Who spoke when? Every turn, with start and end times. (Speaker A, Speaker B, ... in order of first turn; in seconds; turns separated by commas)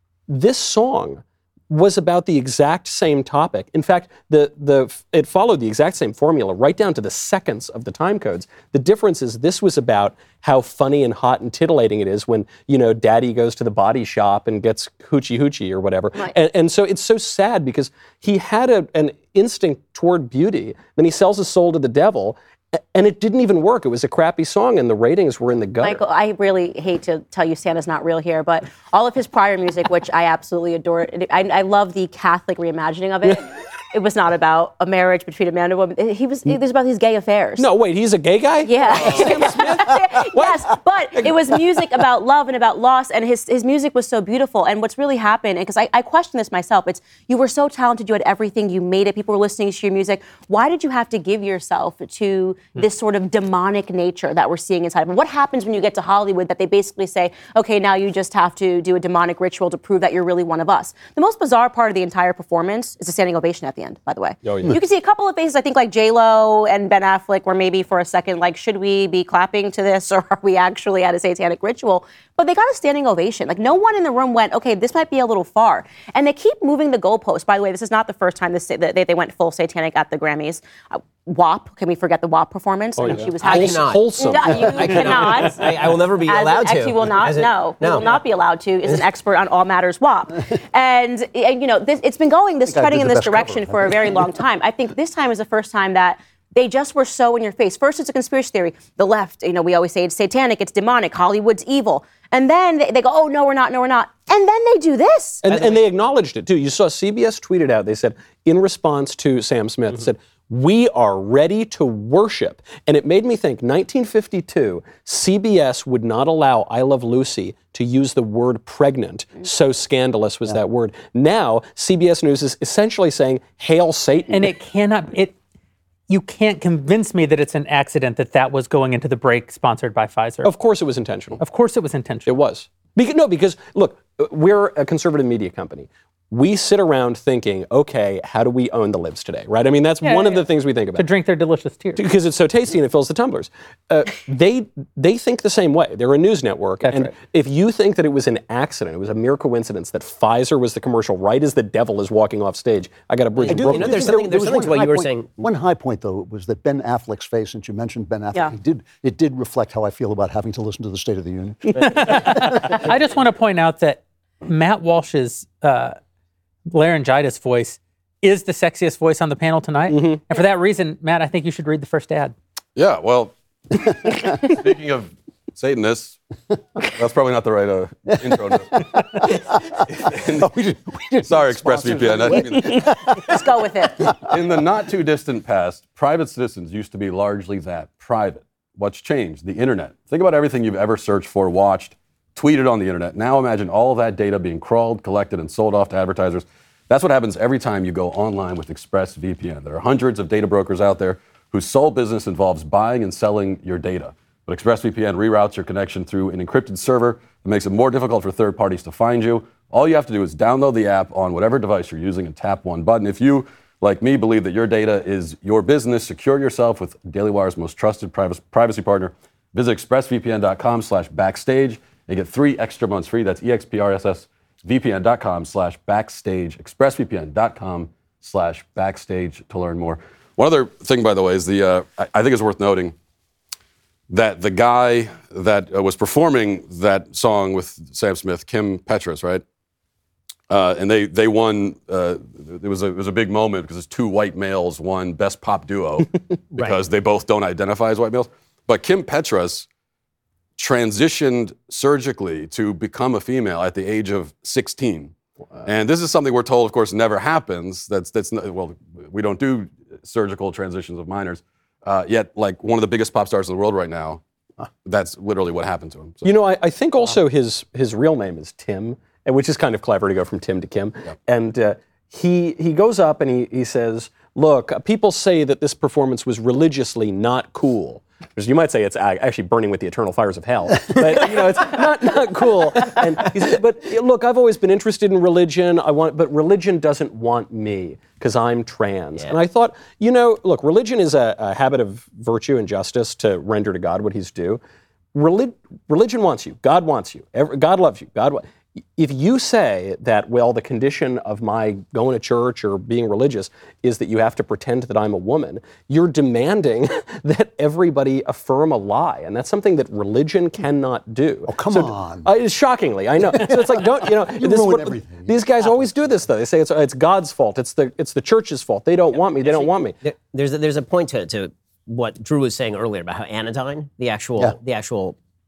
Speaker A: 0.3-26.0, Speaker B: 25.8-37.7, Speaker A: 37.6-41.8, Speaker B: 38.6-105.4, Speaker A: 83.0-86.0, Speaker C: 83.4-88.2, Speaker D: 92.7-94.4, Speaker A: 105.4-124.5, Speaker C: 105.5-105.8, Speaker E: 124.3-125.3, Speaker E: 126.1-130.5, Speaker A: 130.4-131.4, Speaker E: 131.4-132.3, Speaker A: 132.3-141.1, Speaker E: 140.0-142.0, Speaker A: 142.0-154.3, Speaker E: 146.8-147.1, Speaker C: 153.4-155.3, Speaker D: 153.5-162.9, Speaker E: 161.7-166.0, Speaker E: 166.7-172.3, Speaker A: 169.9-170.2, Speaker F: 172.8-176.2, Speaker F: 176.8-180.5, Speaker D: 178.4-184.4, Speaker F: 181.2-182.9, Speaker B: 182.3-184.1, Speaker F: 184.1-232.9, Speaker F: 234.1-239.4, Speaker F: 240.5-249.7, Speaker F: 250.6-255.1, Speaker F: 255.7-264.2, Speaker F: 264.8-266.3, Speaker A: 266.2-294.6, Speaker A: 295.1-298.4, Speaker A: 299.0-319.9, Speaker D: 311.5-312.3, Speaker D: 313.2-315.4, Speaker C: 319.4-325.2